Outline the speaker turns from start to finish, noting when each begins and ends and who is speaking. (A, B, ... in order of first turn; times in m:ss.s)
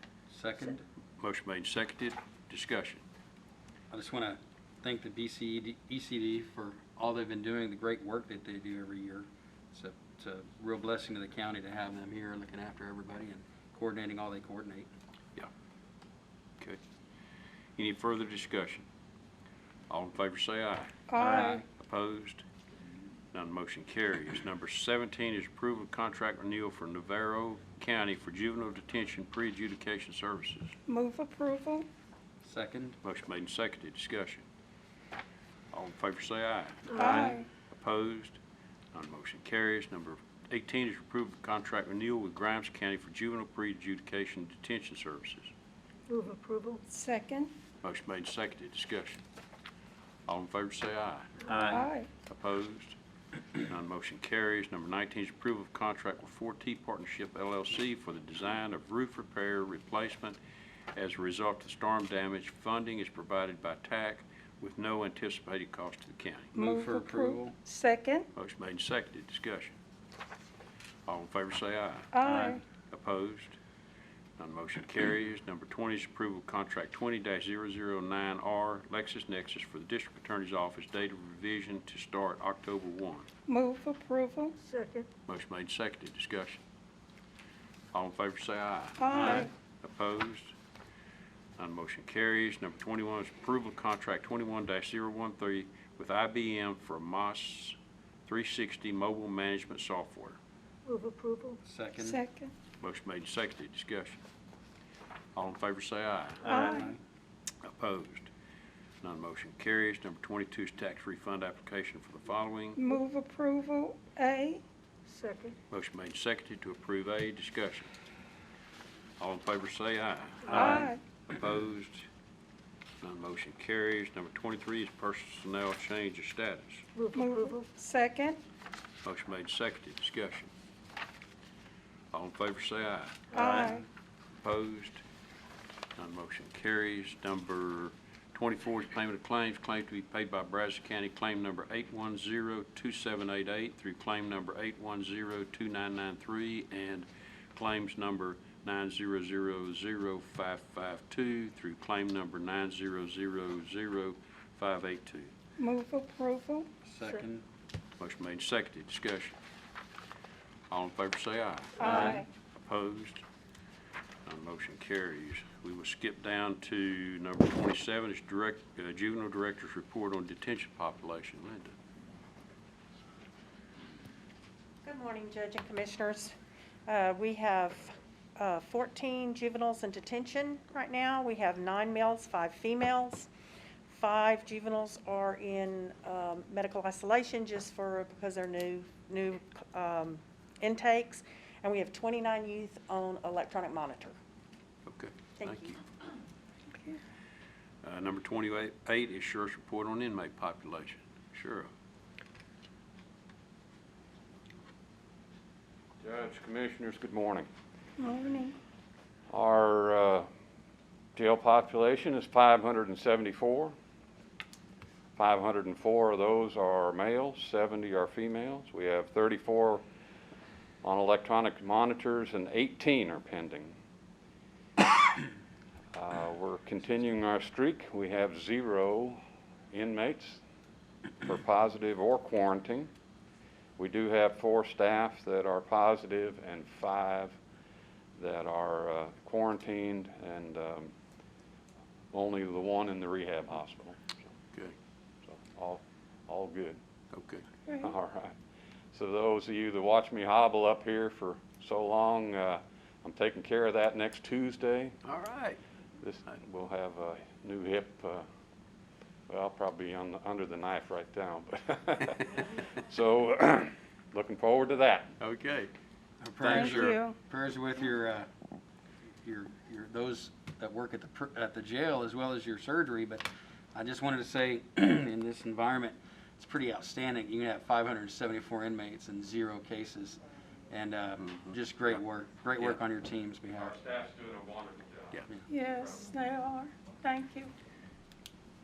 0:00.3-0:00.8 A
0:01.2-0:03.0 B
0:03.9-0:14.9 A
0:17.8-0:18.9 B
0:19.9-0:21.0 B
0:21.1-0:21.6 C
0:21.2-0:21.6 A
0:21.7-0:22.4 B
0:23.3-0:30.8 B
0:30.9-0:31.9 C
0:32.4-0:33.0 A
0:33.0-0:34.4 B
0:35.7-0:38.4 B
0:37.0-0:37.5 C
0:38.9-0:45.5 B
0:46.1-0:46.8 D
0:46.9-0:47.5 C
0:47.8-0:49.2 B
0:50.3-0:51.6 B
0:51.6-0:52.1 C
0:52.2-0:53.0 B
0:53.6-1:00.4 B
1:01.0-1:06.6 B
1:06.6-1:08.3 C
1:06.6-1:07.6 A
1:08.3-1:09.8 B
1:11.0-1:12.1 B
1:12.1-1:12.6 C
1:12.2-1:12.6 A
1:12.9-1:13.6 B
1:14.4-1:23.3 B
1:23.5-1:24.6 C
1:24.6-1:25.1 D
1:25.3-1:26.6 B
1:27.9-1:30.5 B
1:29.0-1:29.5 C
1:29.1-1:29.5 A
1:31.6-1:37.8 B
1:38.3-1:40.4 B
1:40.9-1:41.6 D
1:41.6-1:42.2 A
1:42.0-1:42.5 C
1:42.8-1:44.2 B
1:45.3-1:46.6 B
1:46.4-1:47.0 A
1:46.5-1:46.9 C
1:47.6-1:48.3 B
1:49.0-1:52.8 B
1:52.8-1:54.6 C
1:55.1-1:55.6 D
1:55.7-1:57.9 B
1:59.2-2:02.0 B
2:00.5-2:01.0 C
2:03.0-2:06.8 B
2:07.0-2:07.6 D
2:07.1-2:08.4 C
2:09.0-2:10.5 B
2:12.1-2:13.7 B
2:13.3-2:13.8 C
2:14.4-2:15.0 B
2:16.0-2:35.3 B
2:35.6-2:36.7 C
2:36.8-2:37.4 A
2:38.0-2:39.4 B
2:40.7-2:43.2 B
2:41.8-2:42.2 C
2:41.8-2:42.2 A
2:44.2-2:51.7 B
2:54.8-2:56.3 E
2:56.8-3:03.3 E
3:03.9-3:14.2 E
3:14.8-3:15.8 B
3:15.4-3:15.8 E
3:17.8-3:21.7 B
3:26.0-3:27.5 F
3:28.0-3:28.6 C
3:29.3-3:30.3 F
3:31.2-3:33.7 F
3:35.2-3:39.8 F
3:40.8-3:43.7 F
3:45.9-3:49.2 F
3:49.7-3:50.4 F
3:51.2-3:52.9 F
3:53.8-3:57.4 F
3:58.2-4:00.9 F
4:02.1-4:04.0 F
4:05.2-4:06.8 F
4:07.1-4:07.4 B
4:07.8-4:08.3 F
4:08.9-4:15.0 F
4:15.0-4:15.6 B
4:16.0-4:18.2 F
4:19.3-4:25.1 F
4:25.2-4:25.7 B
4:26.2-4:28.3 A
4:26.4-4:27.0 B
4:26.4-4:27.2 C
4:29.2-4:43.8 A
4:41.2-4:41.6 B
4:43.5-4:46.1 F
4:45.5-4:47.5 C